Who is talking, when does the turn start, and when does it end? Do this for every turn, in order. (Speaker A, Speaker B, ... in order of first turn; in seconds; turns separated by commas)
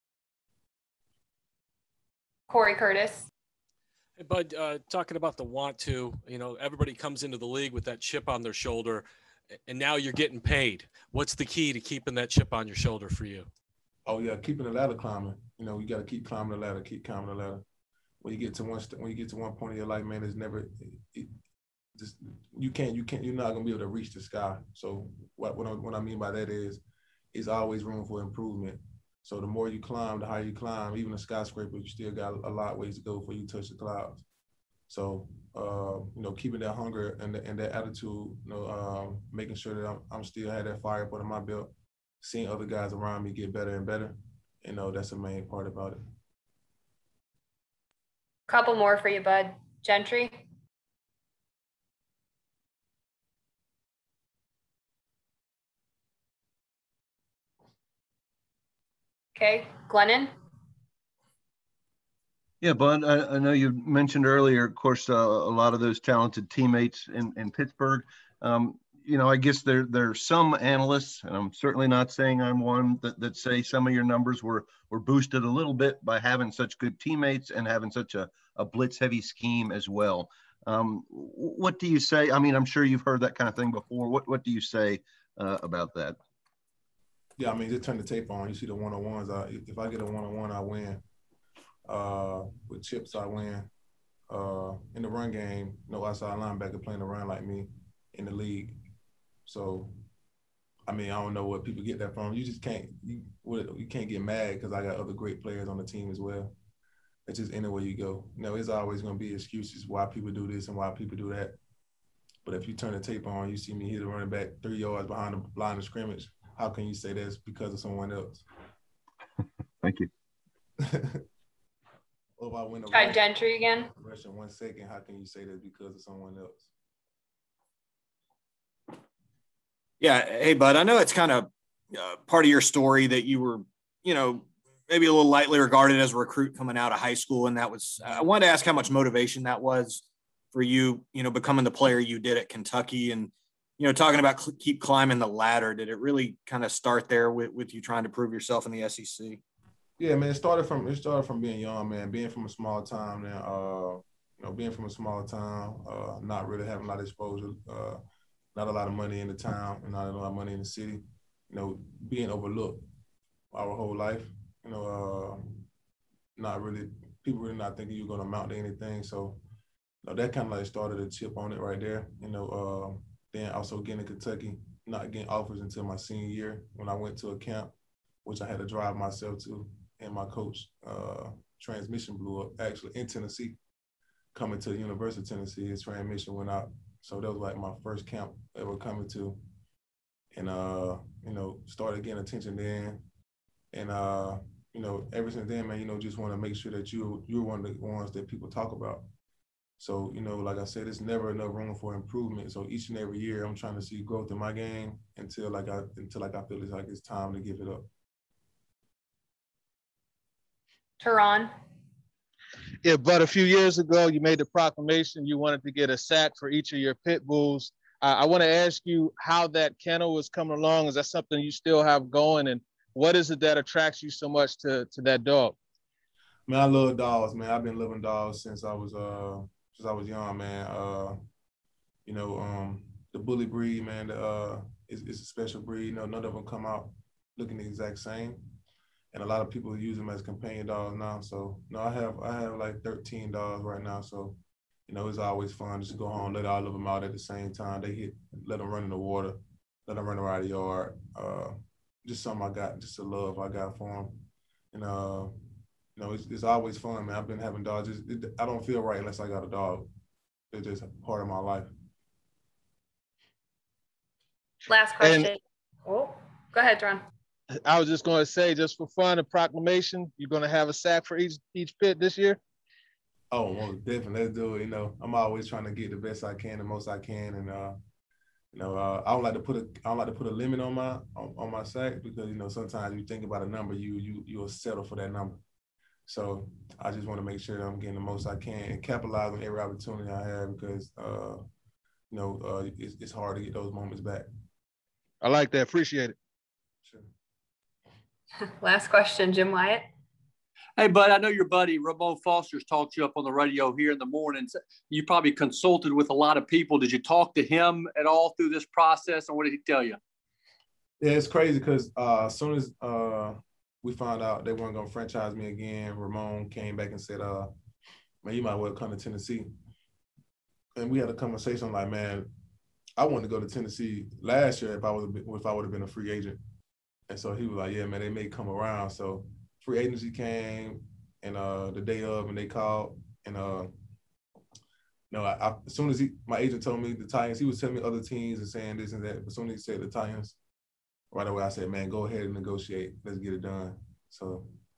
Speaker A: 2.5-3.2, Speaker B: 4.2-9.0, Speaker B: 9.7-13.5, Speaker C: 14.1-17.6, Speaker C: 18.2-21.3, Speaker C: 21.9-34.2, Speaker C: 34.9-41.7, Speaker C: 42.2-46.0, Speaker A: 48.5-50.4, Speaker A: 59.3-60.3, Speaker D: 62.6-86.2, Speaker C: 87.4-91.0, Speaker C: 91.9-93.7, Speaker C: 94.3-98.8, Speaker C: 99.5-99.9, Speaker C: 100.9-106.5, Speaker C: 107.3-111.5, Speaker C: 112.4-118.4, Speaker D: 119.8-120.1, Speaker C: 120.8-121.2, Speaker C: 122.4-123.3, Speaker A: 122.9-123.9, Speaker C: 124.0-126.7, Speaker E: 130.0-149.4, Speaker C: 150.0-158.0, Speaker C: 158.5-162.8, Speaker C: 163.5-165.6, Speaker C: 166.3-169.4, Speaker C: 170.0-177.7, Speaker C: 178.2-183.6, Speaker C: 184.3-189.4, Speaker C: 190.3-193.0, Speaker C: 193.7-199.0, Speaker C: 199.8-207.8, Speaker A: 211.0-211.5, Speaker F: 212.8-225.5, Speaker C: 226.5-231.2, Speaker C: 232.1-238.4, Speaker C: 239.1-251.5, Speaker C: 252.0-255.3, Speaker C: 255.9-259.9, Speaker C: 260.5-261.7, Speaker A: 264.6-267.0, Speaker F: 265.0-265.3, Speaker F: 267.6-272.4, Speaker C: 273.3-277.8, Speaker C: 278.5-285.4, Speaker C: 286.1-291.4, Speaker C: 292.1-294.3, Speaker F: 295.2-296.1, Speaker A: 298.6-299.8, Speaker G: 300.8-310.0, Speaker C: 311.0-317.5, Speaker C: 318.2-319.5, Speaker C: 320.8-322.3, Speaker C: 323.0-326.4, Speaker C: 327.1-333.7, Speaker C: 335.1-340.4, Speaker C: 341.1-344.5